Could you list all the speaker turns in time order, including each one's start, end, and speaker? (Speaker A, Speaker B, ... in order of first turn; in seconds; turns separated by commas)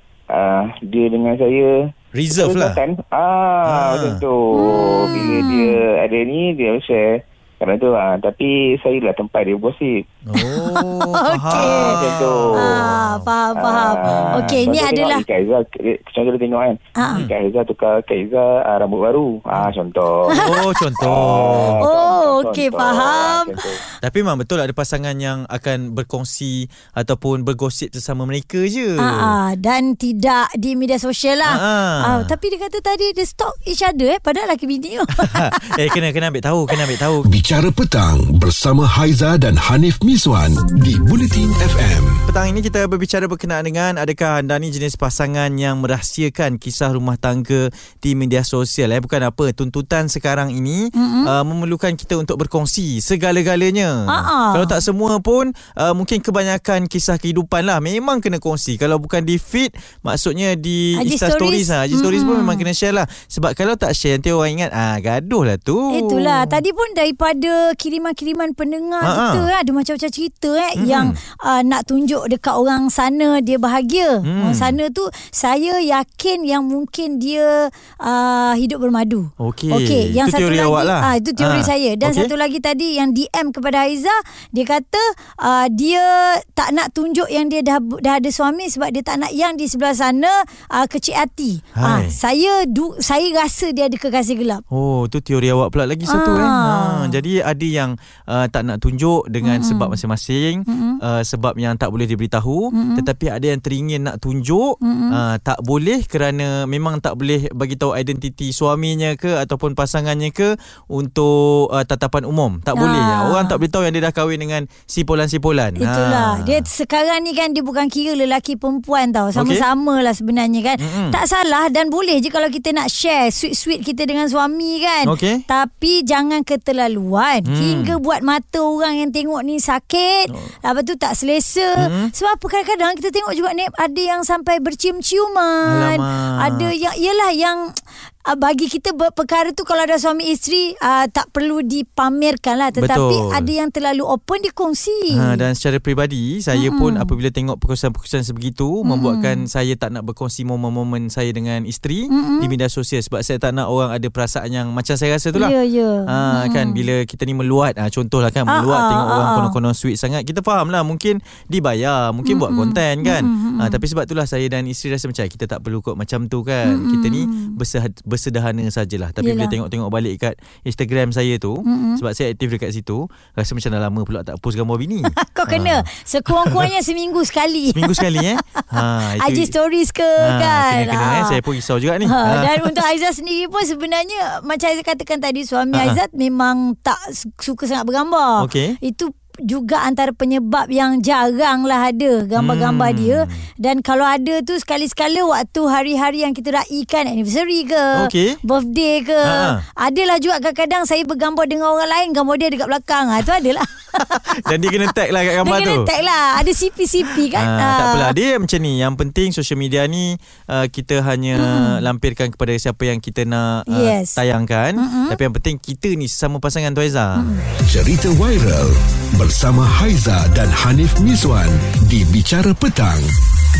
Speaker A: 0.3-10.0, Speaker B: 2.1-2.8, Speaker B: 3.6-4.2, Speaker C: 4.5-5.7, Speaker B: 10.3-13.3, Speaker C: 10.3-15.2, Speaker A: 11.5-12.9, Speaker A: 13.6-23.8, Speaker B: 14.0-14.6, Speaker C: 16.9-17.3, Speaker B: 20.3-21.9, Speaker C: 20.3-23.8, Speaker B: 24.0-29.4, Speaker C: 29.0-35.8, Speaker B: 31.4-32.3, Speaker B: 35.2-37.3, Speaker D: 37.2-42.2, Speaker B: 42.3-66.6, Speaker C: 50.9-51.3, Speaker C: 54.1-54.7, Speaker C: 61.0-62.6, Speaker C: 65.9-94.6, Speaker B: 69.0-69.5, Speaker B: 70.8-71.2, Speaker B: 74.2-74.8, Speaker B: 79.4-82.3, Speaker B: 91.8-92.2, Speaker B: 94.7-116.7, Speaker C: 96.1-97.1, Speaker C: 99.4-100.0, Speaker C: 100.7-101.0, Speaker C: 102.7-103.0, Speaker C: 104.8-105.2, Speaker C: 112.7-113.6, Speaker C: 115.8-137.7, Speaker B: 119.3-119.6, Speaker B: 120.8-121.2, Speaker B: 125.0-125.4, Speaker B: 127.4-128.0, Speaker B: 131.8-132.1, Speaker B: 135.7-136.7, Speaker C: 138.3-145.4, Speaker B: 142.8-143.5, Speaker B: 145.1-155.5, Speaker C: 146.5-147.1, Speaker C: 148.8-149.4, Speaker C: 152.1-152.5, Speaker C: 155.3-156.8, Speaker B: 156.1-176.7, Speaker C: 158.5-159.5, Speaker C: 162.2-163.8, Speaker C: 166.6-167.6, Speaker C: 169.2-169.5, Speaker C: 171.6-172.0, Speaker C: 175.1-181.4, Speaker B: 177.7-179.5, Speaker B: 180.2-182.7, Speaker C: 182.0-204.2, Speaker B: 185.7-186.0, Speaker B: 188.4-188.8, Speaker B: 192.3-193.4, Speaker B: 197.9-198.4, Speaker B: 199.2-199.6, Speaker B: 203.9-205.9, Speaker C: 205.4-208.2, Speaker B: 207.0-217.3, Speaker C: 211.3-211.8, Speaker C: 213.7-214.2, Speaker C: 214.8-215.2, Speaker C: 217.2-217.4, Speaker D: 217.7-223.1